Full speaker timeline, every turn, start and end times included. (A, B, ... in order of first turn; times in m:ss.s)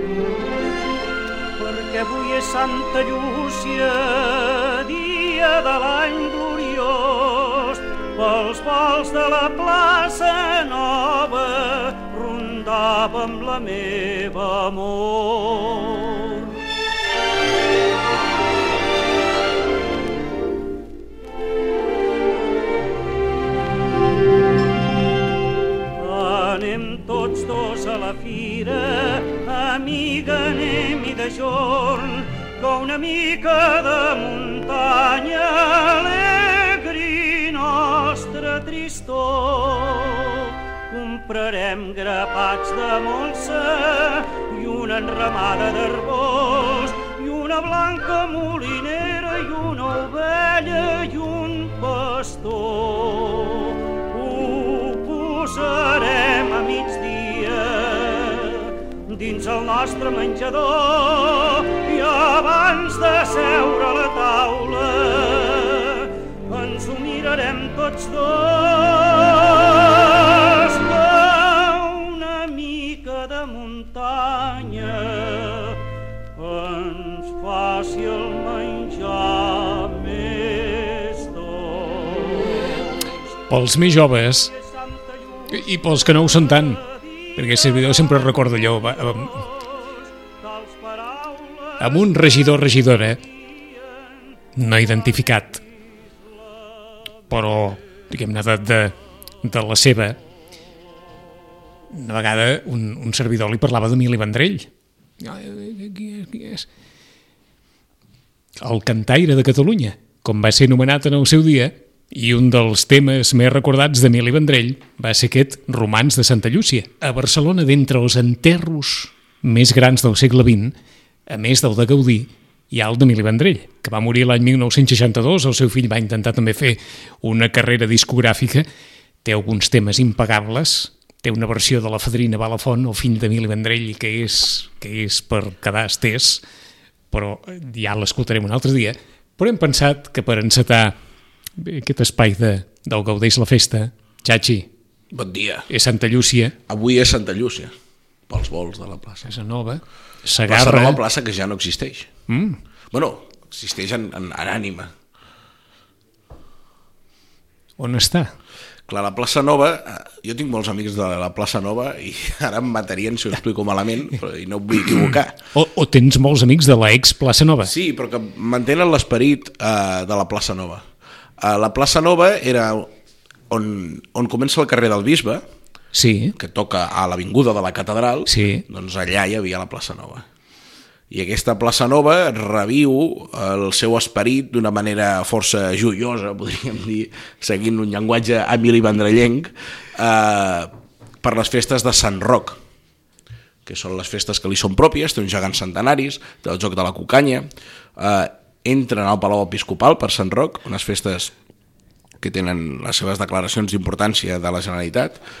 0:01.6-0:16.6 A
0:26.0-1:15.8 A
1:16.4-1:22.8 A
1:23.5-1:24.5 B
1:24.7-1:25.6 A
1:25.5-1:26.8 B
1:27.4-1:29.4 B
1:30.4-1:32.1 A
1:31.8-1:33.2 B
1:33.4-1:34.3 A
1:34.6-1:35.6 B
1:37.3-1:40.2 B
1:41.9-1:44.7 B
1:45.2-1:46.6 B
1:48.6-2:00.7 B
2:01.3-2:08.6 B
2:09.2-2:16.4 B
2:17.1-2:20.9 B
2:21.6-2:24.7 B
2:25.1-2:25.7 C
2:25.7-2:26.5 B
2:26.7-2:27.7 C
2:28.3-2:29.3 C
2:29.2-2:31.0 B
2:30.5-2:32.1 C
2:32.3-2:32.6 B
2:32.9-2:34.9 C
2:37.8-2:38.3 B
2:38.9-2:45.4 C
2:45.5-2:47.7 B
2:47.6-2:50.8 C
2:51.4-2:52.9 C
2:53.5-2:55.4 C
2:55.9-2:56.3 B
2:56.4-3:00.2 C
2:58.3-2:58.6 B
3:01.1-3:10.7 C
3:11.2-3:12.6 C
3:13.6-3:21.3 C
3:22.2-3:25.2 C